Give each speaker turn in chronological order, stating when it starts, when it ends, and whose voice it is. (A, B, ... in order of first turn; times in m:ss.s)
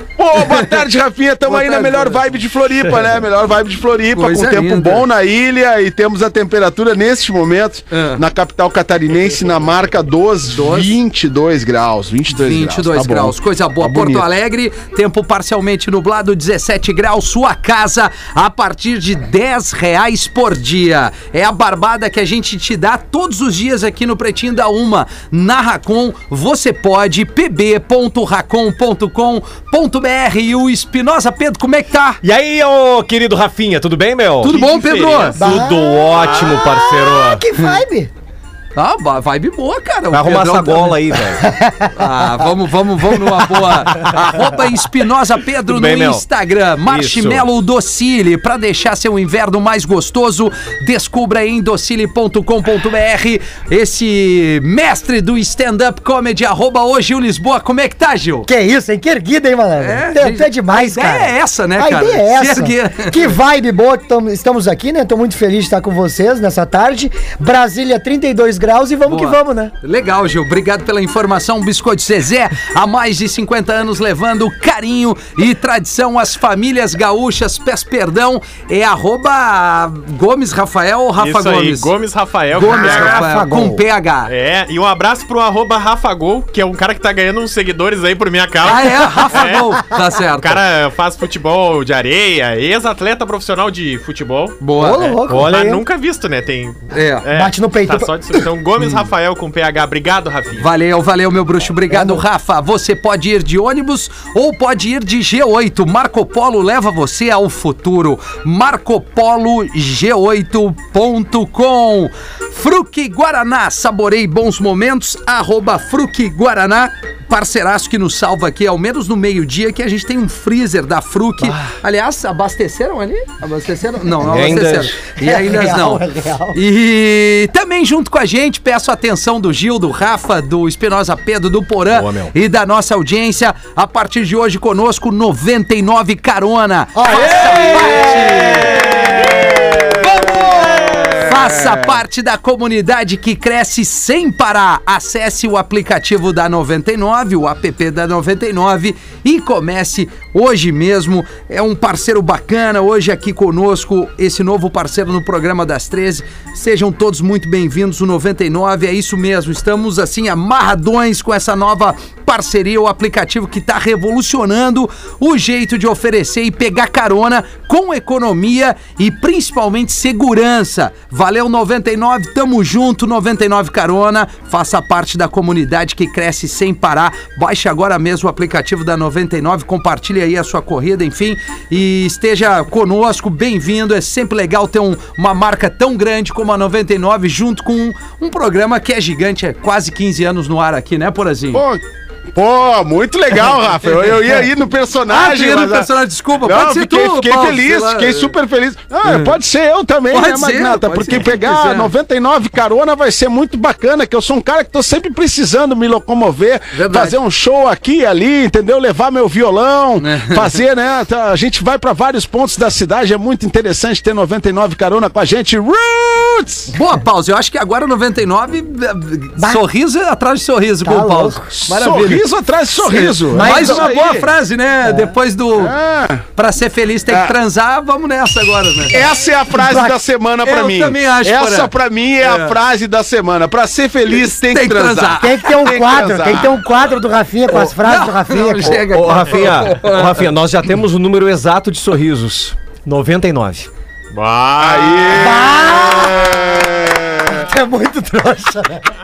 0:00.2-0:14.2 A
0:00.4-0:00.8 B
0:01.4-0:02.3 B
0:04.1-0:05.1 B
0:07.9-0:08.2 B
0:10.5-0:10.9 B
0:12.3-0:32.2 B
0:32.2-0:34.5 C
0:34.4-0:35.4 B
0:34.4-0:35.6 D
0:35.4-0:37.4 C
0:35.4-0:38.1 E
0:36.1-0:36.6 D
0:38.8-0:41.2 B
0:40.1-0:41.5 C
0:41.4-0:42.4 E
0:41.9-0:58.5 B
0:43.9-0:44.2 C
0:45.6-0:46.2 C
0:46.8-0:47.5 C
0:58.5-1:09.7 E
0:59.8-1:03.2 B
1:09.0-1:21.9 B
1:21.2-1:23.3 D
1:22.5-1:23.8 E
1:22.6-1:24.3 B
1:24.3-1:29.8 D
1:28.6-1:30.6 B
1:30.4-1:34.6 D
1:34.6-1:35.2 B
1:34.8-1:35.5 E
1:35.3-1:35.8 C
1:35.4-1:40.7 D
1:36.9-1:37.2 B
1:37.3-1:38.4 E
1:40.6-3:11.6 B
1:41.9-1:42.2 E
2:04.2-2:05.0 C
2:05.2-2:06.6 E
2:11.9-2:12.3 C
2:16.9-2:19.6 E
2:17.9-2:22.0 A
3:11.5-3:11.8 A
3:12.3-3:36.7 A
3:13.9-3:14.4 B
3:15.1-3:18.3 B
3:19.0-3:19.4 B
3:20.1-3:21.9 B
3:26.7-3:27.2 B
3:30.0-3:30.6 B
3:36.7-3:42.2 B
3:39.4-3:39.6 E
3:40.8-3:41.5 E
3:41.7-3:44.3 A
3:42.8-3:45.8 B
3:43.3-3:43.9 E
3:44.8-3:45.1 E
3:45.6-3:46.2 A
3:46.4-3:49.0 B
3:47.1-3:47.4 A
3:48.9-3:56.6 A
3:49.5-3:50.0 E
3:50.4-3:52.6 B
3:54.1-3:55.5 B
3:55.2-3:58.9 E
3:57.5-4:00.3 B
3:58.6-4:03.7 C
4:04.1-4:05.3 D
4:04.6-4:07.4 A
4:05.1-4:06.6 E
4:07.2-4:08.9 E